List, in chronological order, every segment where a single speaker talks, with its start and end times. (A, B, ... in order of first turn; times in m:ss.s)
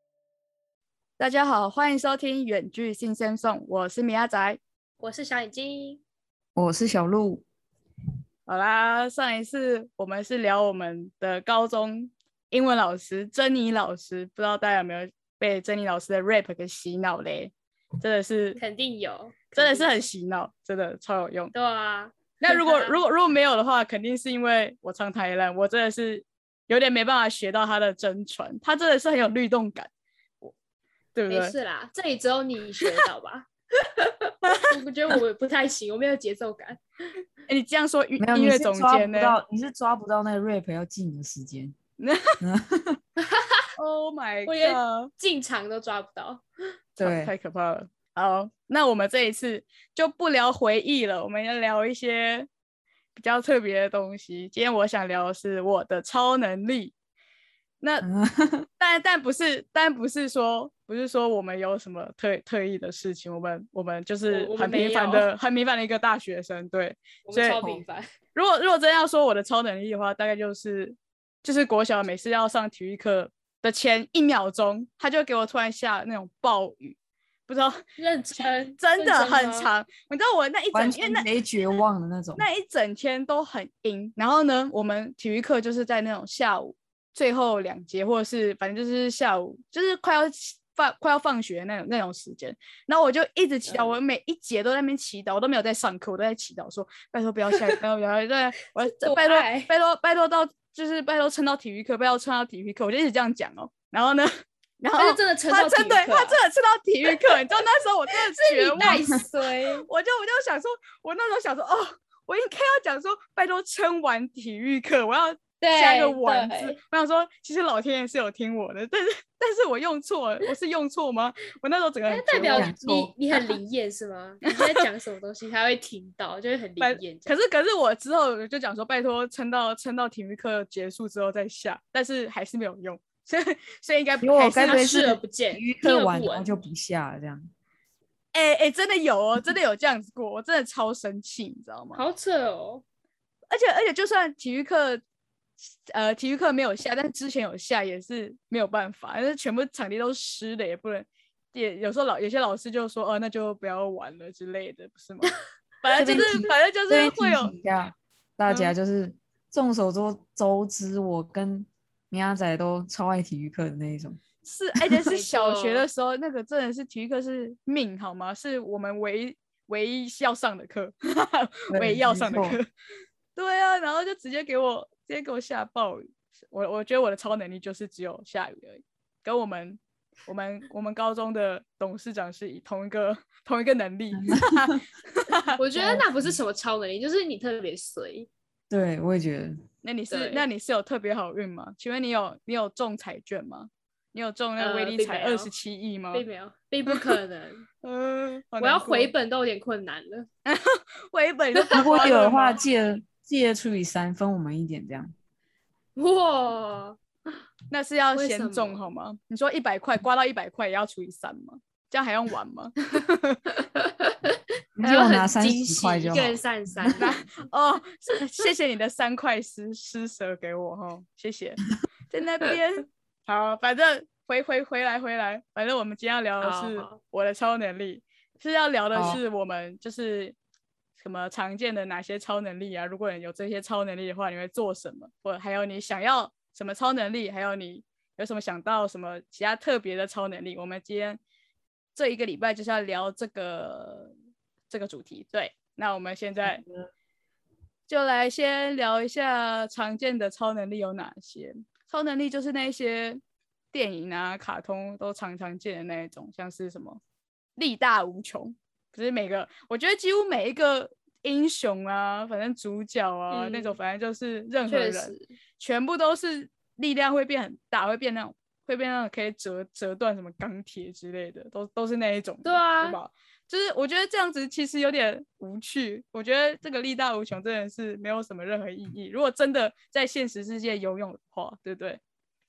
0:01.2-0:04.6 A
0:05.0-0:06.0 B
0:06.5-0:07.4 C
0:08.5-0:18.6 A
0:18.6-0:19.9 B
0:19.6-0:21.5 A
0:21.5-0:23.0 B
0:22.4-0:29.9 A
0:31.1-0:31.5 A
0:31.3-0:36.8 B
0:34.4-0:34.7 A
0:37.5-0:39.3 A
0:38.2-0:41.8 C
0:42.0-0:42.4 A
0:42.4-0:43.0 C
0:43.2-0:43.6 B
0:43.8-0:45.1 A
0:44.4-0:46.4 B
0:47.0-0:52.5 A
0:47.0-0:47.3 C
0:53.1-0:56.9 A
0:57.8-0:58.0 A
0:58.0-0:58.7 C
0:58.8-1:07.8 A
1:04.3-1:05.3 B
1:07.3-1:08.1 B
1:08.3-1:17.0 A
1:17.5-1:17.8 A
1:18.0-1:19.7 B
1:18.8-1:21.2 A
1:20.7-1:22.5 C
1:22.4-1:49.2 A
1:33.7-1:34.0 B
1:38.8-1:39.7 B
1:45.0-1:46.4 B
1:47.1-1:47.4 B
1:48.3-1:49.9 B
1:48.8-1:49.2 C
1:49.9-2:02.7 A
1:55.6-1:56.8 B
2:02.1-2:07.3 B
2:02.4-2:03.1 C
2:04.5-2:04.8 A
2:06.8-2:14.8 A
2:14.2-2:17.5 C
2:14.6-2:16.6 B
2:18.3-2:22.0 A
2:21.9-2:22.8 B
2:23.5-2:25.0 A
2:25.9-2:37.5 A
2:36.0-2:44.2 C
2:38.5-2:38.7 A
2:44.4-2:52.6 A
2:45.1-2:45.9 B
2:51.7-2:52.6 C
2:53.4-3:05.6 A
3:04.1-3:04.8 C
3:05.6-3:08.3 B
3:05.8-3:06.4 C
3:08.7-3:09.6 C
3:09.8-3:16.2 A
3:10.1-3:10.4 B
3:14.6-3:15.5 B
3:16.1-3:17.6 B
3:16.9-3:17.2 A
3:17.8-3:19.1 A
3:18.6-3:20.3 B
3:20.4-3:22.6 A
3:21.6-3:21.9 B
3:21.7-3:25.1 C
3:25.9-3:27.0 B
3:27.7-3:33.4 A
3:28.2-3:28.9 B
3:33.5-3:37.2 B
3:34.8-3:37.1 C
3:37.0-3:50.3 A
3:46.4-3:47.0 B
3:48.9-3:49.2 C
3:51.0-4:01.2 A
4:01.9-4:04.1 A
4:04.7-4:06.6 A
4:06.4-4:06.9 C
4:07.9-4:13.2 A
4:13.7-4:17.0 A
4:17.6-4:42.0 A
4:23.3-4:23.8 B
4:24.7-4:25.3 B
4:32.4-4:33.0 B